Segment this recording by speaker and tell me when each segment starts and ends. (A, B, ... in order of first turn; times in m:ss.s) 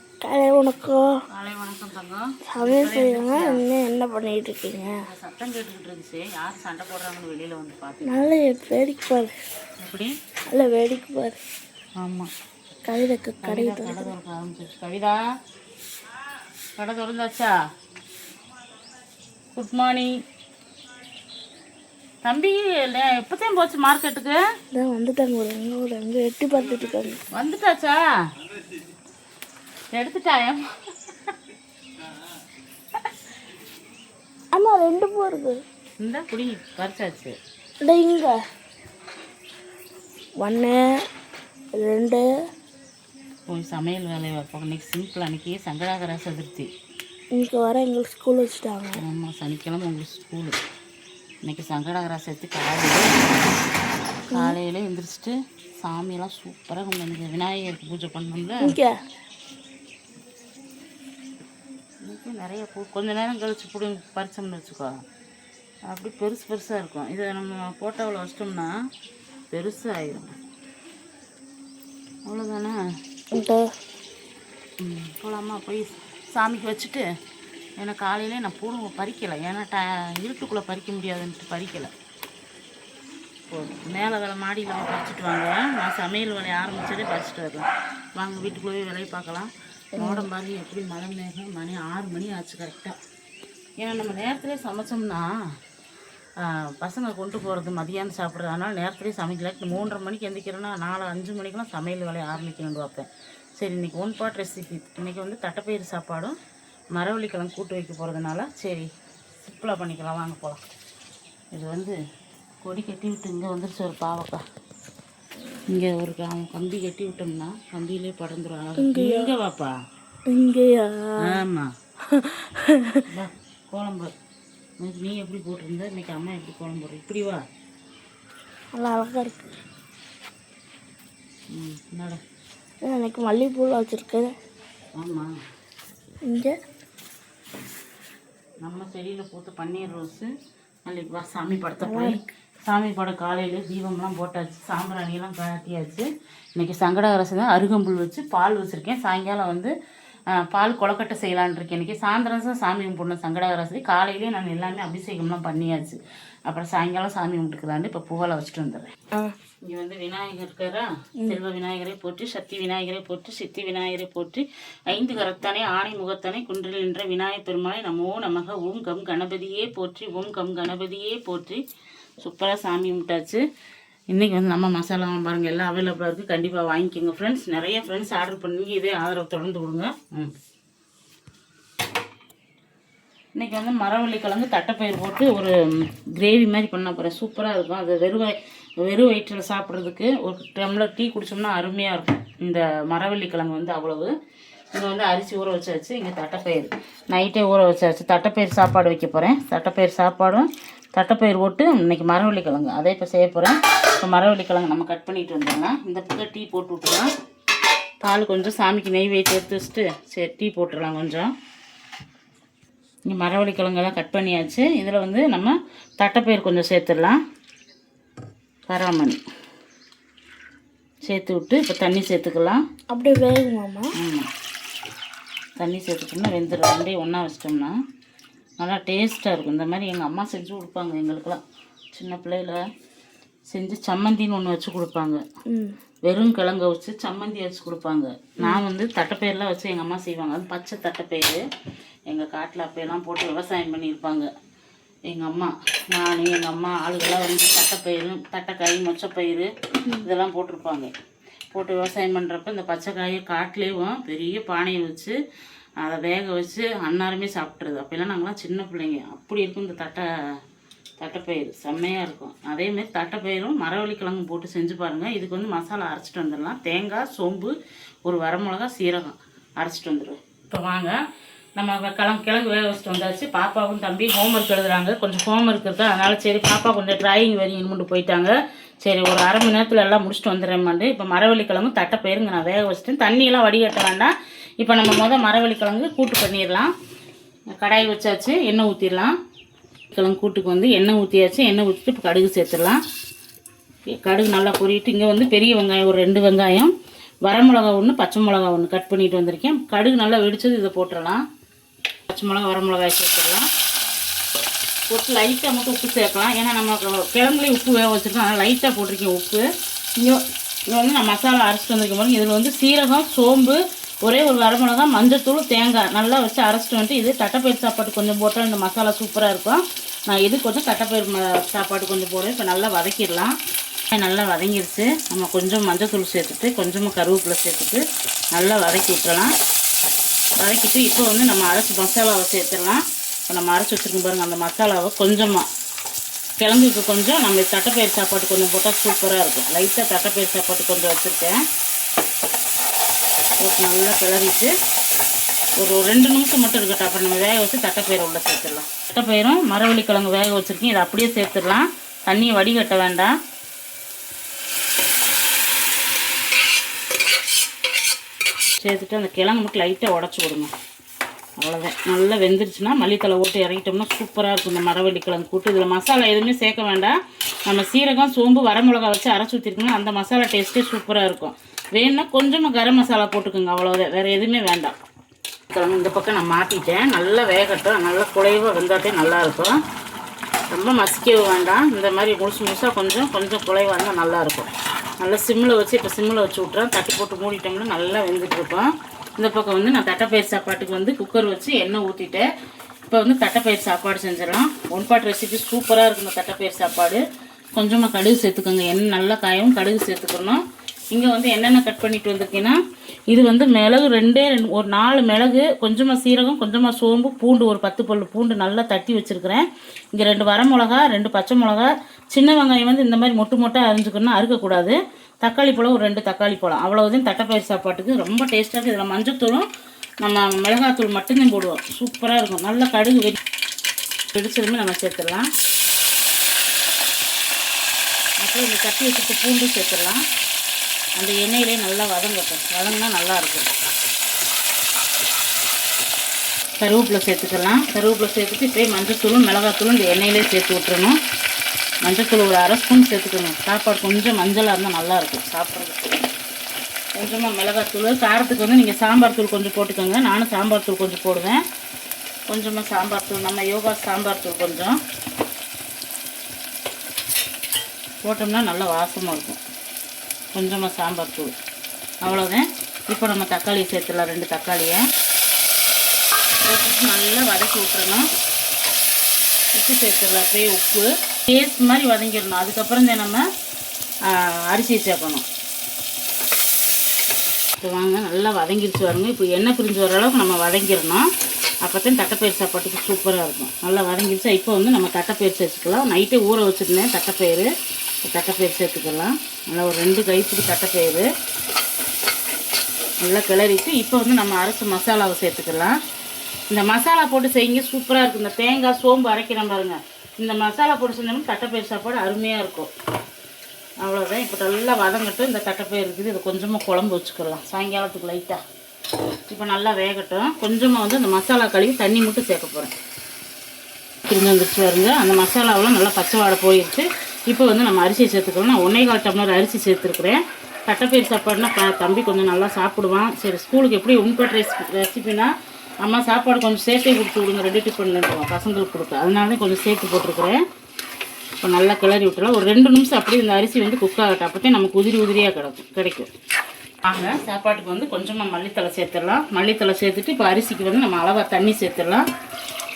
0:00.2-0:01.1 A
0:01.3-0:03.6 B
0:02.5-0:05.0 A
0:05.1-0:08.3 B
0:08.0-0:09.3 A
0:09.8-0:10.2 B
0:10.5-0:11.4 A
0:12.0-0:12.3 B
0:12.9-0:14.1 A
0:13.4-0:15.2 B
0:16.8-0:17.5 B
0:19.5-0:20.1 B
0:22.2-0:24.4 B
0:24.7-0:27.2 A
0:26.7-0:28.0 B
0:29.9-0:30.8 B
0:34.5-0:35.6 A
0:36.0-0:37.4 B
0:37.8-0:38.3 A
0:40.4-0:40.8 A
0:41.8-0:42.2 A
0:43.5-0:46.7 B
0:47.4-0:49.0 A
0:49.0-0:50.6 B
0:51.4-0:53.3 B
0:54.3-0:58.8 B
0:58.6-0:58.9 A
1:02.1-1:04.9 B
1:05.9-1:08.7 B
1:09.5-1:10.3 B
1:12.2-1:12.8 B
1:13.3-1:13.6 A
1:14.8-1:17.0 B
1:17.8-1:21.9 B
1:23.5-1:32.9 B
1:30.0-1:30.3 A
1:33.8-1:35.3 B
1:36.4-1:46.4 B
1:46.9-1:48.9 B
1:49.4-1:50.6 B
1:51.5-1:52.0 B
1:52.6-1:54.4 B
1:55.7-1:59.7 B
1:58.8-1:59.3 A
2:00.3-2:01.4 A
2:01.2-2:01.7 B
2:02.1-2:03.0 A
2:03.1-2:04.1 B
2:04.8-2:07.4 B
2:08.7-2:09.5 A
2:11.5-2:12.2 B
2:12.8-2:14.3 A
2:15.0-2:15.3 B
2:16.3-2:16.5 A
2:18.6-2:20.3 B
2:20.8-2:29.7 B
2:21.8-2:22.2 A
2:30.3-2:38.9 B
2:39.6-2:51.6 B
2:52.2-2:53.4 B
2:54.1-3:00.3 B
3:03.3-3:14.1 B
3:14.7-3:27.1 B
3:28.0-3:31.3 B
3:33.0-3:37.2 B
3:38.7-3:39.2 B
3:41.0-3:42.6 B
3:42.9-3:43.9 A
3:44.0-3:44.3 B
3:45.6-3:47.7 B
3:48.6-3:51.4 B
3:51.9-3:52.6 B
3:53.5-3:55.2 B
3:56.0-4:01.4 B
4:02.1-4:04.3 B
4:05.1-4:09.5 B
4:10.0-4:10.9 B
4:11.5-4:15.1 B
4:15.8-4:20.1 B
4:21.0-4:27.5 B
4:28.0-4:30.9 B
4:31.6-4:46.7 B
4:47.5-4:49.1 B
4:49.9-4:52.8 B
4:53.9-4:56.7 B
4:57.2-5:01.2 B
5:02.1-5:03.5 B
5:04.9-5:09.4 B
5:10.0-5:23.3 B
5:23.9-5:27.8 B
5:28.3-5:29.3 B
5:30.4-5:35.5 B
5:36.4-5:41.4 B
5:43.4-5:44.5 B
5:45.6-5:53.1 B
5:58.6-6:00.5 B
6:01.4-6:14.7 B
6:15.5-6:19.6 B
6:20.5-6:32.3 B
6:32.9-6:37.0 B
6:37.6-6:42.6 B
6:43.1-6:59.5 B
7:00.0-7:03.2 B
7:04.1-7:05.3 B
7:08.2-7:10.0 B
7:11.0-7:13.5 B
7:16.6-7:21.0 B
7:21.8-7:25.9 B
7:27.0-7:31.4 B
7:32.3-7:34.8 B
7:38.0-7:39.4 B
7:40.3-7:41.3 B
7:42.0-7:44.8 B
7:46.4-7:48.0 B
7:49.5-7:53.2 B
7:54.1-7:55.2 B
7:57.6-8:01.0 B
8:01.6-8:07.5 B
8:08.0-8:11.1 B
8:13.0-8:15.8 B
8:16.5-8:22.7 B
8:23.8-8:28.4 B
8:29.3-8:32.7 B
8:34.0-8:45.3 B
8:45.8-8:50.4 B
8:51.4-8:56.1 B
8:56.8-9:02.0 B